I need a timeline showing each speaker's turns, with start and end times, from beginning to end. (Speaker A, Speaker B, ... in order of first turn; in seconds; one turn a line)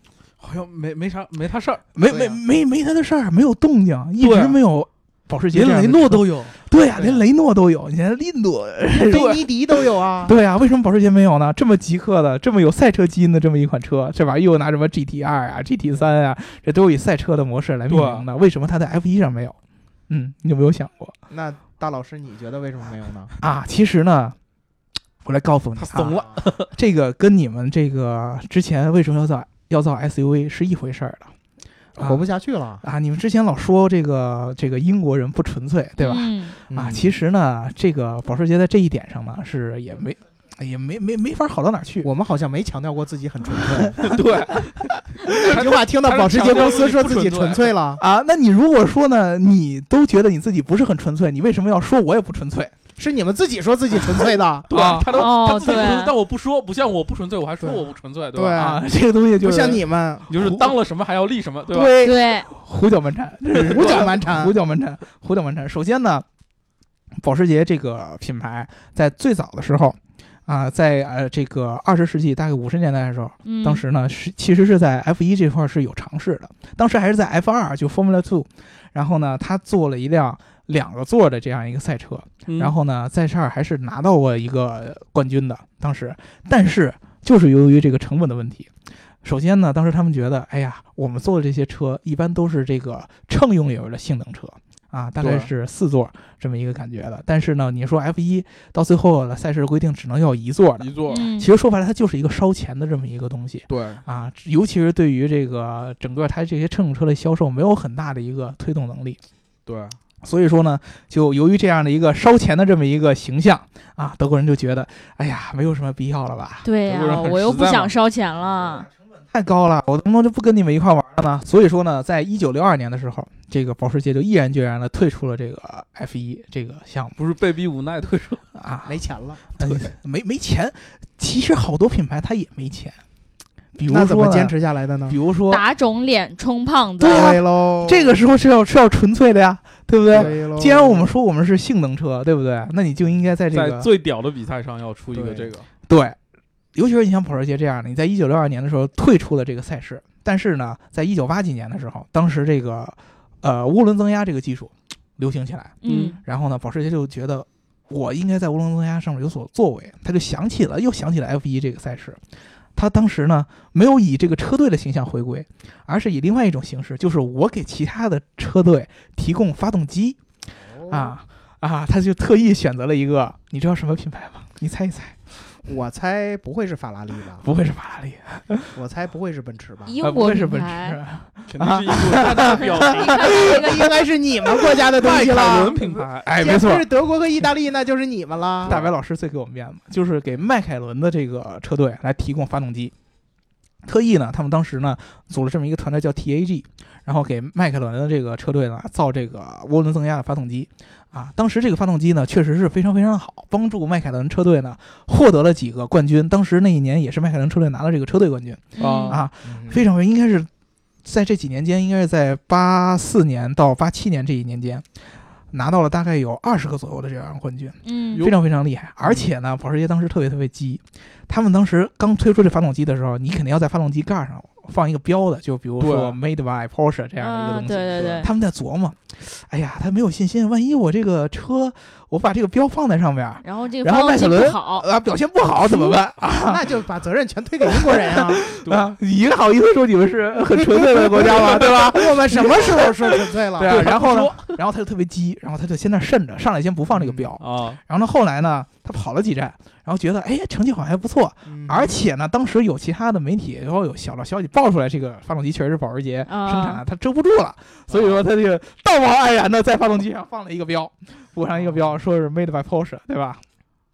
Speaker A: 0.4-1.8
Speaker B: 1.9-9.4
Speaker C: 2.0-2.4
Speaker A: 4.2-4.6
Speaker A: 5.5-6.6
Speaker C: 7.0-7.2
Speaker C: 9.1-10.3
Speaker A: 9.1-9.4
Speaker B: 10.2-19.6
Speaker A: 17.9-18.3
Speaker B: 20.1-21.1
Speaker C: 21.3-23.3
Speaker B: 23.4-24.4
Speaker B: 25.2-31.3
Speaker A: 25.8-26.7
Speaker C: 32.0-32.8
Speaker B: 32.0-32.2
Speaker B: 32.8-42.1
Speaker D: 36.0-36.6
Speaker C: 36.7-37.1
Speaker C: 42.0-44.0
Speaker B: 43.7-44.2
Speaker A: 44.0-47.7
Speaker B: 44.8-45.5
Speaker C: 45.4-48.0
Speaker B: 48.0-52.7
Speaker C: 53.0-54.7
Speaker A: 54.7-58.6
Speaker B: 54.7-55.3
Speaker D: 55.1-56.1
Speaker C: 57.6-58.8
Speaker B: 58.5-60.7
Speaker C: 59.4-60.3
Speaker A: 60.3-61.9
Speaker B: 61.7-66.2
Speaker D: 62.0-62.5
Speaker C: 63.5-64.5
Speaker A: 63.7-64.0
Speaker B: 67.2-88.7
Speaker D: 73.5-73.8
Speaker A: 82.5-82.7
Speaker B: 89.2-109.2
Speaker A: 95.2-95.5
Speaker A: 100.8-101.3
Speaker D: 101.1-101.5
Speaker A: 103.7-104.0
Speaker A: 109.7-110.0
Speaker B: 110.2-116.7
Speaker D: 116.6-118.9
Speaker A: 116.9-118.0
Speaker B: 119.3-127.2
Speaker A: 127.2-128.4
Speaker B: 128.6-128.9
Speaker C: 128.9-129.5
Speaker B: 129.6-133.0
Speaker B: 133.8-134.5
Speaker C: 133.9-135.2
Speaker B: 135.1-135.6
Speaker D: 135.5-137.3
Speaker C: 137.0-138.2
Speaker B: 137.0-143.9
Speaker C: 140.1-141.1
Speaker A: 143.5-145.7
Speaker C: 145.1-145.5
Speaker B: 145.9-146.2
Speaker B: 146.7-162.2
Speaker D: 155.8-156.2
Speaker A: 155.8-156.2
Speaker B: 162.8-170.2
Speaker C: 170.7-171.2
Speaker B: 170.9-175.2
Speaker C: 175.7-177.4
Speaker B: 177.4-178.8
Speaker C: 178.8-179.9
Speaker D: 179.9-181.0
Speaker B: 180.0-183.3
Speaker A: 181.5-183.3
Speaker D: 182.4-184.0
Speaker C: 183.3-188.8
Speaker A: 184.9-186.3
Speaker B: 186.2-186.9
Speaker A: 188.7-188.9
Speaker B: 188.7-192.9
Speaker B: 193.8-210.5
Speaker D: 208.8-209.2
Speaker A: 208.8-209.2
Speaker C: 209.1-209.8
Speaker B: 211.0-214.8
Speaker B: 215.5-236.6
Speaker D: 217.8-218.3
Speaker A: 225.8-226.2
Speaker D: 227.2-228.3
Speaker D: 233.4-234.9
Speaker C: 236.4-238.5
Speaker B: 237.9-263.4
Speaker A: 238.7-238.9
Speaker C: 240.6-243.8
Speaker A: 243.6-244.6
Speaker C: 246.9-247.3
Speaker A: 247.4-247.8
Speaker C: 251.5-252.0
Speaker D: 256.3-256.8
Speaker C: 257.9-258.2